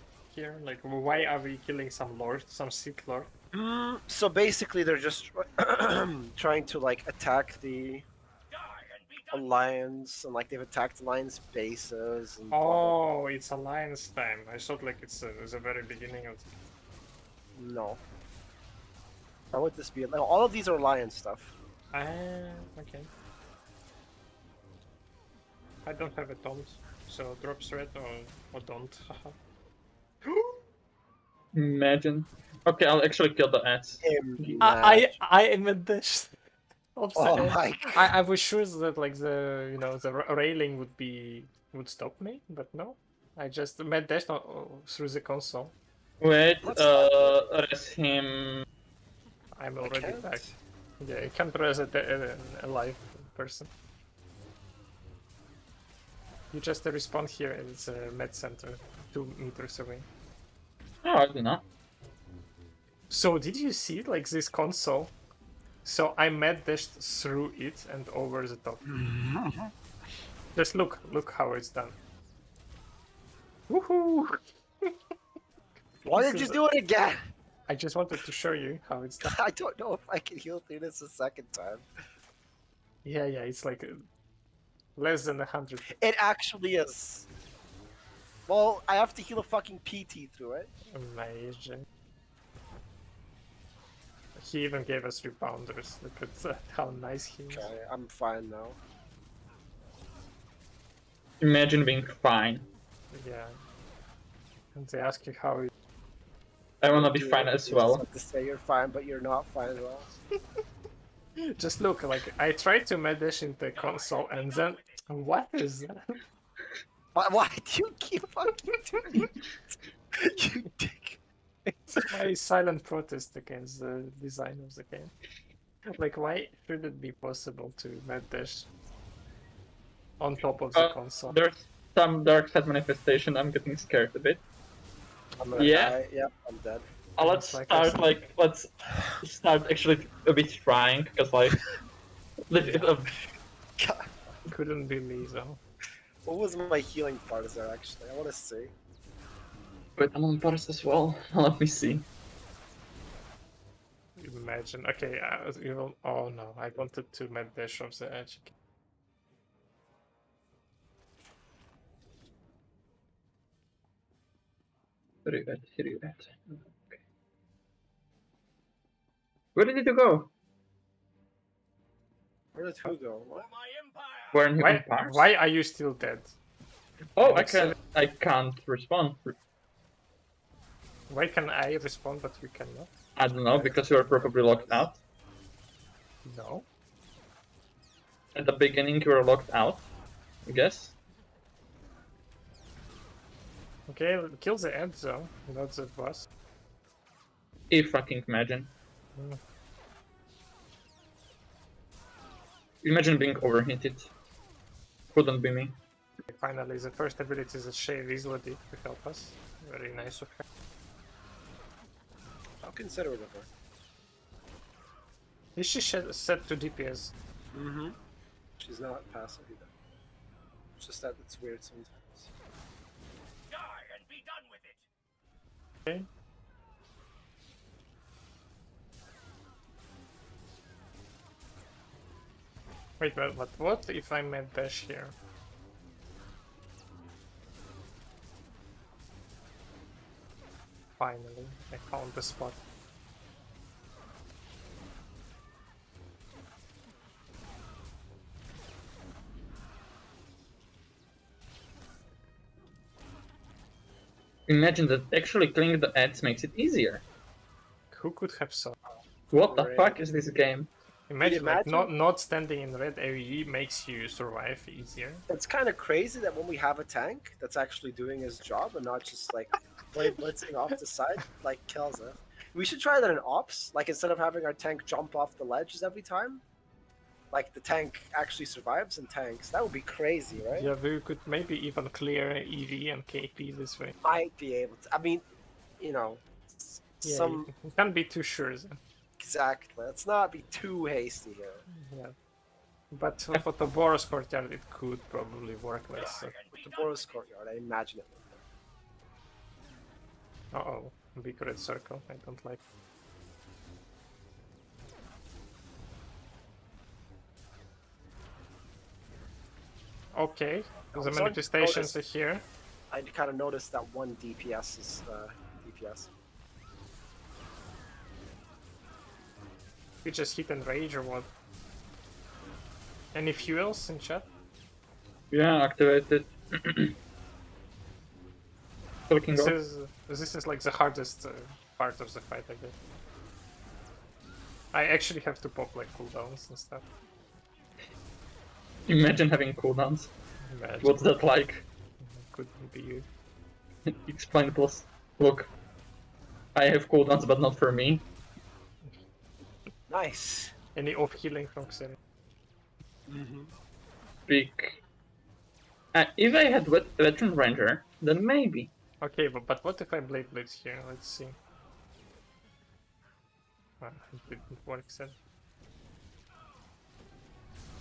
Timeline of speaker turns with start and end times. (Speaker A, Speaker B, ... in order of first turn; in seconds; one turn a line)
Speaker A: 0.3-3.3
Speaker B: 3.5-8.1
Speaker B: 9.3-13.0
Speaker A: 12.5-16.6
Speaker B: 17.5-18.0
Speaker B: 19.5-21.5
Speaker A: 21.9-23.1
Speaker A: 25.8-29.4
Speaker A: 30.2-30.6
Speaker C: 31.5-34.6
Speaker B: 34.0-35.2
Speaker A: 34.6-36.4
Speaker A: 36.9-45.7
Speaker B: 37.1-38.1
Speaker C: 46.2-48.6
Speaker B: 46.6-47.6
Speaker A: 49.5-50.5
Speaker B: 49.8-50.6
Speaker A: 51.0-53.7
Speaker A: 56.5-60.1
Speaker C: 61.0-61.6
Speaker A: 63.1-65.1
Speaker A: 65.8-68.8
Speaker B: 68.8-69.7
Speaker A: 70.5-72.0
Speaker A: 73.7-74.9
Speaker A: 76.0-76.6
Speaker B: 76.1-77.3
Speaker A: 77.7-79.3
Speaker B: 79.2-81.9
Speaker A: 83.0-84.0
Speaker A: 85.0-85.9
Speaker B: 85.9-87.3
Speaker B: 88.5-90.7
Speaker A: 90.9-91.8
Speaker A: 94.3-97.7
Speaker B: 97.5-98.8
Speaker C: 101.4-102.7
Speaker A: 103.1-103.5
Speaker A: 104.7-105.7
Speaker C: 106.8-108.0
Speaker B: 106.9-110.1
Speaker A: 111.6-116.2
Speaker B: 117.1-122.2
Speaker A: 121.9-125.1
Speaker A: 125.9-128.7
Speaker A: 130.2-131.4
Speaker C: 130.7-134.4
Speaker B: 135.4-136.9
Speaker C: 135.6-136.0
Speaker C: 137.2-138.7
Speaker A: 137.2-138.1
Speaker B: 138.9-139.2
Speaker C: 139.2-141.6
Speaker C: 142.5-143.1
Speaker A: 142.6-142.8
Speaker B: 142.8-143.2
Speaker B: 143.8-144.4
Speaker A: 144.5-145.6
Speaker B: 146.2-148.7
Speaker C: 150.0-152.1
Speaker A: 154.2-158.5
Speaker C: 165.2-167.0
Speaker C: 169.5-170.3
Speaker B: 172.5-173.5
Speaker C: 174.3-175.2
Speaker A: 174.6-176.3
Speaker C: 177.2-179.3
Speaker A: 177.2-177.8
Speaker A: 181.1-182.9
Speaker C: 183.2-185.0
Speaker B: 183.5-184.9
Speaker A: 186.2-186.7
Speaker C: 188.3-189.8
Speaker C: 190.4-191.0
Speaker A: 193.9-196.3
Speaker C: 197.7-198.7
Speaker C: 202.8-204.1
Speaker C: 205.1-205.8
Speaker A: 206.3-210.4
Speaker B: 212.6-213.5
Speaker A: 215.6-217.1
Speaker B: 217.5-218.0
Speaker B: 218.6-219.7
Speaker B: 220.8-222.3
Speaker A: 233.0-235.1
Speaker A: 241.0-242.6
Speaker C: 254.5-257.0
Speaker A: 257.9-258.8
Speaker C: 259.3-260.7
Speaker B: 259.4-260.0
Speaker A: 261.1-265.2
Speaker B: 261.2-261.9
Speaker B: 265.3-276.4
Speaker B: 277.3-280.7
Speaker A: 280.5-283.9
Speaker B: 284.0-285.2
Speaker B: 285.8-287.5
Speaker A: 287.0-288.8
Speaker B: 289.2-291.6
Speaker A: 291.7-292.1
Speaker A: 292.9-296.7
Speaker B: 296.6-298.4
Speaker A: 300.5-302.6
Speaker A: 310.1-312.4
Speaker B: 310.9-311.9
Speaker B: 312.9-316.1
Speaker A: 320.0-321.3
Speaker A: 323.1-324.3
Speaker C: 325.3-326.9
Speaker C: 329.1-329.5
Speaker A: 329.3-332.8
Speaker A: 334.7-336.8
Speaker C: 338.9-340.1
Speaker A: 340.4-341.0
Speaker C: 340.8-341.7
Speaker A: 342.0-343.1
Speaker C: 343.9-345.5
Speaker C: 346.5-348.0
Speaker B: 349.9-350.5
Speaker A: 350.7-352.0
Speaker B: 353.1-353.5
Speaker C: 354.3-354.8
Speaker C: 355.9-358.7
Speaker A: 359.0-361.4
Speaker A: 363.8-365.2